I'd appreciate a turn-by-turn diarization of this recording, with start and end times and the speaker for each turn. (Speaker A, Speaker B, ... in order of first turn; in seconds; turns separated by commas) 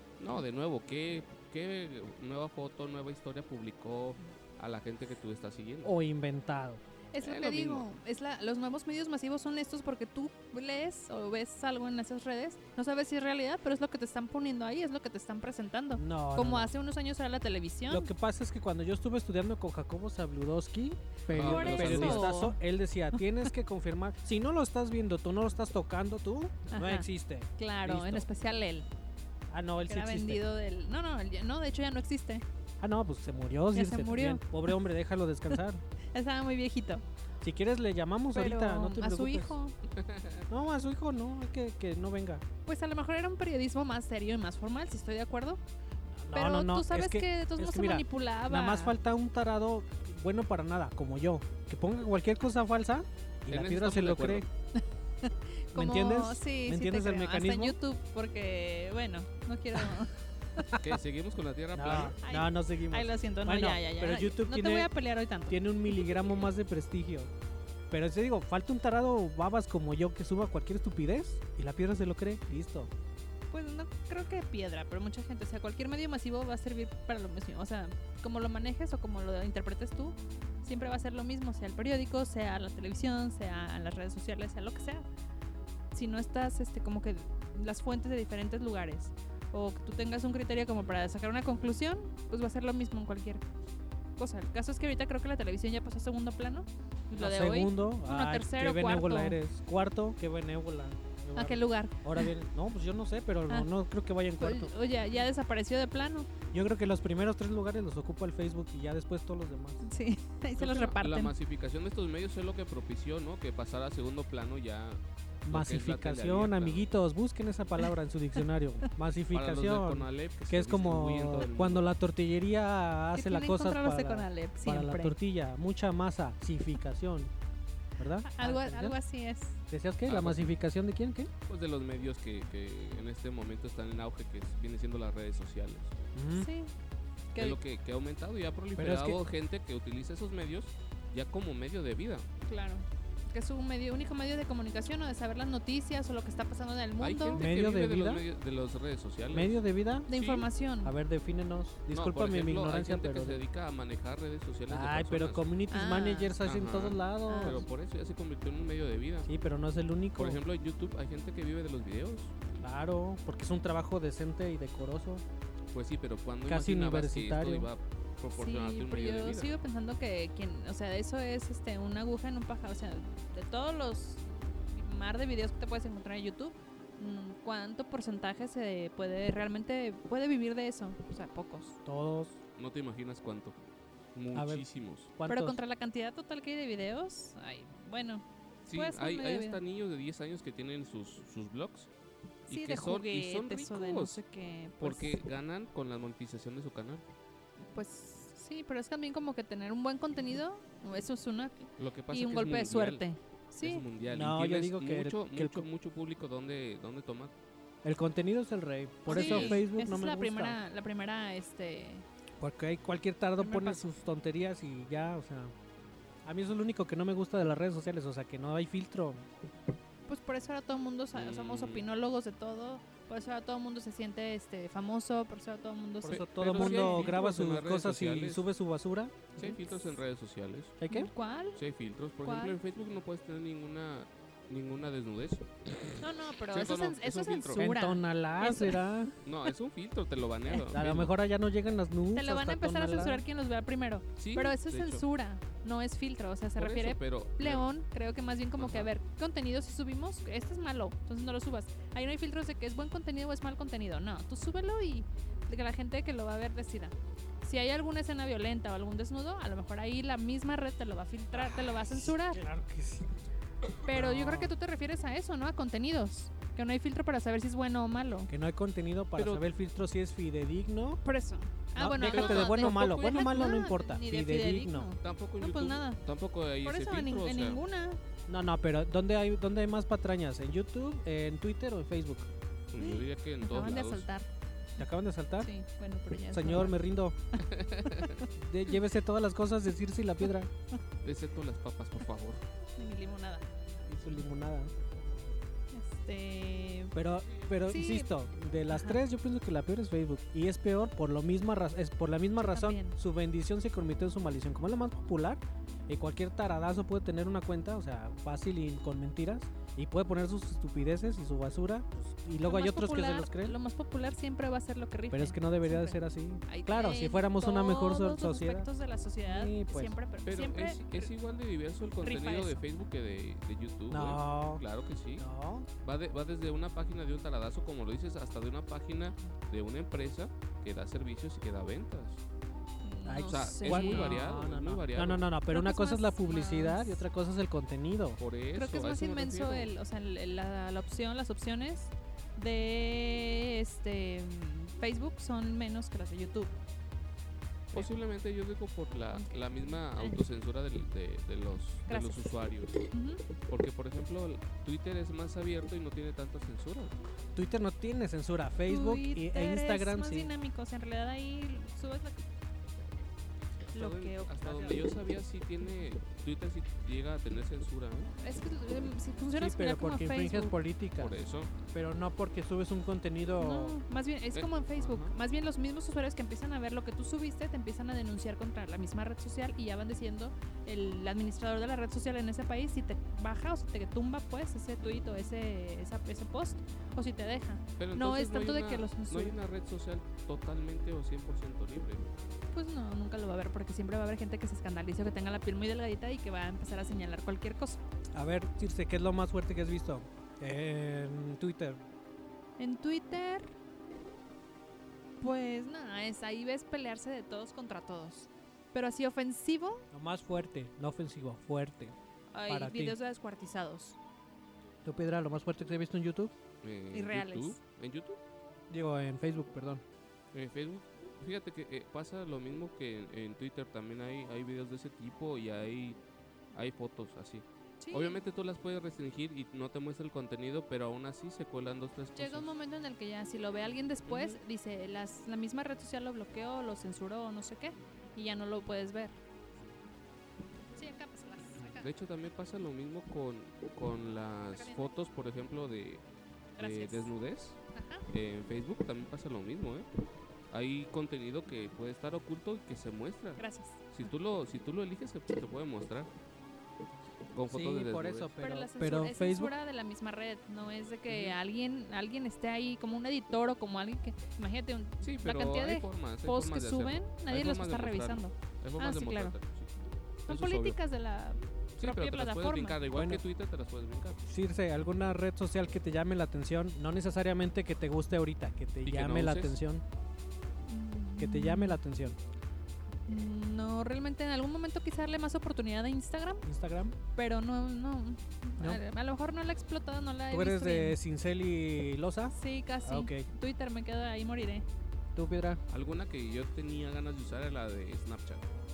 Speaker A: 0.2-5.9, Speaker B: 5.8-6.8, Speaker C: 7.1-18.1, Speaker A: 7.2-7.8, Speaker B: 15.9-16.7, Speaker B: 17.9-28.3, Speaker A: 21.3-22.4, Speaker C: 21.3-22.6, Speaker C: 26.7-28.9, Speaker B: 29.5-30.4, Speaker C: 29.9-32.4, Speaker B: 32.8-35.8, Speaker C: 33.7-34.7, Speaker C: 36.1-37.0, Speaker B: 37.4-39.6, Speaker C: 38.3-39.7, Speaker A: 40.0-40.4, Speaker B: 40.5-42.4, Speaker C: 42.6-45.6, Speaker B: 46.2-54.5, Speaker C: 46.3-48.9, Speaker A: 53.5-54.5, Speaker C: 54.8-60.7, Speaker B: 55.7-57.8, Speaker A: 60.8-62.2, Speaker B: 61.7-64.9, Speaker C: 62.2-66.4, Speaker B: 65.5-67.3, Speaker B: 67.9-72.9, Speaker C: 73.5-85.0, Speaker C: 85.9-93.4, Speaker C: 94.2-99.4, Speaker B: 97.1-104.7, Speaker C: 101.3-102.3, Speaker C: 104.4-106.3, Speaker B: 106.5-109.8, Speaker C: 109.8-111.3, Speaker A: 110.6-116.9, Speaker B: 115.5-127.3, Speaker A: 119.3-121.8, Speaker C: 123.1-125.1, Speaker B: 128.0-129.0, Speaker C: 128.2-129.6, Speaker B: 129.7-131.3, Speaker A: 130.1-130.5, Speaker A: 131.5-135.9, Speaker B: 136.1-136.5, Speaker C: 136.3-136.7, Speaker A: 137.4-142.3, Speaker B: 138.8-139.2, Speaker C: 142.5-147.4, Speaker A: 147.0-149.6, Speaker B: 147.3-148.2, Speaker B: 149.3-150.1, Speaker C: 150.1-150.9, Speaker A: 150.1-150.4, Speaker B: 150.8-153.4, Speaker A: 151.9-155.4, Speaker B: 154.7-157.7, Speaker C: 155.7-156.3, Speaker A: 156.4-159.3, Speaker C: 157.3-157.6, Speaker B: 159.2-160.4, Speaker A: 160.2-162.4, Speaker B: 162.6-165.2, Speaker A: 165.7-169.5, Speaker B: 166.5-167.7, Speaker C: 168.3-181.8, Speaker B: 181.8-182.4, Speaker A: 182.6-183.6, Speaker A: 184.1-185.1, Speaker B: 184.3-185.6, Speaker C: 185.3-189.6, Speaker A: 188.7-191.9, Speaker A: 192.5-194.2, Speaker C: 192.5-195.2, Speaker A: 194.8-197.0, Speaker C: 197.7-203.8, Speaker A: 201.8-203.0, Speaker A: 203.6-207.3, Speaker B: 204.0-205.7, Speaker B: 207.8-210.6, Speaker C: 209.1-212.0, Speaker A: 209.1-209.6, Speaker B: 212.4-215.5, Speaker C: 213.4-213.9, Speaker B: 216.2-219.3, Speaker C: 220.1-227.1, Speaker A: 221.1-221.9, Speaker B: 226.0-229.3, Speaker A: 226.4-228.4, Speaker A: 229.3-230.8, Speaker C: 229.4-229.9, Speaker B: 230.8-231.1, Speaker C: 230.9-231.6, Speaker A: 231.6-237.6, Speaker C: 232.2-232.5, Speaker C: 236.0-238.8, Speaker B: 237.6-239.1, Speaker A: 239.2-241.1, Speaker B: 240.7-243.2, Speaker C: 242.1-262.4, Speaker A: 244.2-245.0, Speaker A: 246.6-247.7, Speaker A: 248.6-248.9, Speaker B: 261.3-263.1, Speaker C: 263.8-268.3, Speaker B: 263.9-264.5, Speaker B: 268.3-271.0, Speaker A: 269.2-269.4, Speaker C: 271.0-276.0, Speaker B: 271.8-274.9, Speaker A: 272.0-273.5, Speaker A: 275.0-277.6, Speaker C: 276.6-278.0, Speaker B: 278.3-282.3, Speaker A: 282.7-284.1, Speaker C: 282.8-284.3, Speaker B: 284.8-285.5, Speaker C: 285.4-286.8, Speaker B: 286.3-287.2, Speaker A: 287.4-288.2, Speaker C: 287.9-288.2, Speaker B: 288.4-290.5, Speaker A: 291.0-292.4, Speaker C: 292.8-293.5, Speaker B: 293.9-294.7, Speaker C: 295.7-296.9, Speaker B: 296.9-313.6, Speaker C: 297.7-298.1, Speaker C: 298.7-299.0, Speaker C: 302.4-302.9, Speaker C: 312.4-321.1, Speaker B: 315.1-318.7, Speaker B: 319.2-319.9, Speaker A: 320.2-325.2, Speaker C: 322.0-322.6, Speaker B: 323.9-324.6, Speaker B: 325.2-325.7, Speaker A: 325.8-332.2, Speaker C: 332.8-334.2, Speaker B: 333.1-338.2, Speaker A: 333.2-335.3, Speaker C: 335.5-337.0, Speaker A: 338.2-339.7, Speaker C: 338.5-346.5, Speaker A: 347.7-352.8, Speaker C: 349.1-350.2, Speaker C: 351.9-352.2, Speaker C: 352.9-353.2, Speaker A: 353.5-356.9, Speaker B: 357.4-360.3, Speaker C: 358.7-362.2, Speaker A: 363.6-368.1, Speaker C: 363.7-364.8, Speaker C: 368.2-370.5, Speaker B: 369.3-373.8, Speaker A: 371.0-371.5, Speaker C: 373.4-389.4, Speaker A: 374.3-375.1, Speaker A: 387.8-392.1, Speaker C: 392.5-397.8, Speaker B: 398.1-401.8, Speaker C: 402.6-403.5, Speaker C: 405.2-409.9, Speaker B: 409.9-411.9, Speaker C: 412.3-414.0, Speaker B: 412.5-412.9, Speaker B: 414.8-416.3, Speaker A: 416.6-418.2, Speaker C: 416.9-417.6, Speaker B: 418.7-419.8, Speaker A: 420.3-426.0, Speaker A: 426.5-432.5, Speaker C: 427.8-428.2, Speaker C: 432.1-439.1, Speaker A: 434.1-434.3, Speaker C: 440.8-441.9, Speaker A: 441.6-446.0, Speaker C: 444.5-444.9, Speaker C: 446.6-447.1, Speaker A: 446.6-449.9, Speaker C: 447.7-448.1, Speaker A: 450.5-456.1, Speaker C: 453.4-453.8, Speaker A: 457.3-458.3, Speaker B: 457.5-459.5, Speaker C: 458.4-469.4, Speaker A: 461.1-461.4, Speaker A: 465.0-469.7, Speaker A: 470.3-470.8, Speaker C: 470.3-472.8, Speaker A: 471.8-474.2, Speaker B: 472.9-473.2, Speaker B: 474.3-479.8, Speaker A: 478.8-479.6, Speaker C: 480.7-481.8, Speaker B: 481.2-482.2, Speaker C: 483.1-486.4, Speaker B: 486.4-486.9, Speaker C: 487.1-491.0, Speaker B: 490.3-493.3, Speaker C: 492.3-494.6, Speaker B: 495.1-495.6, Speaker A: 495.7-498.5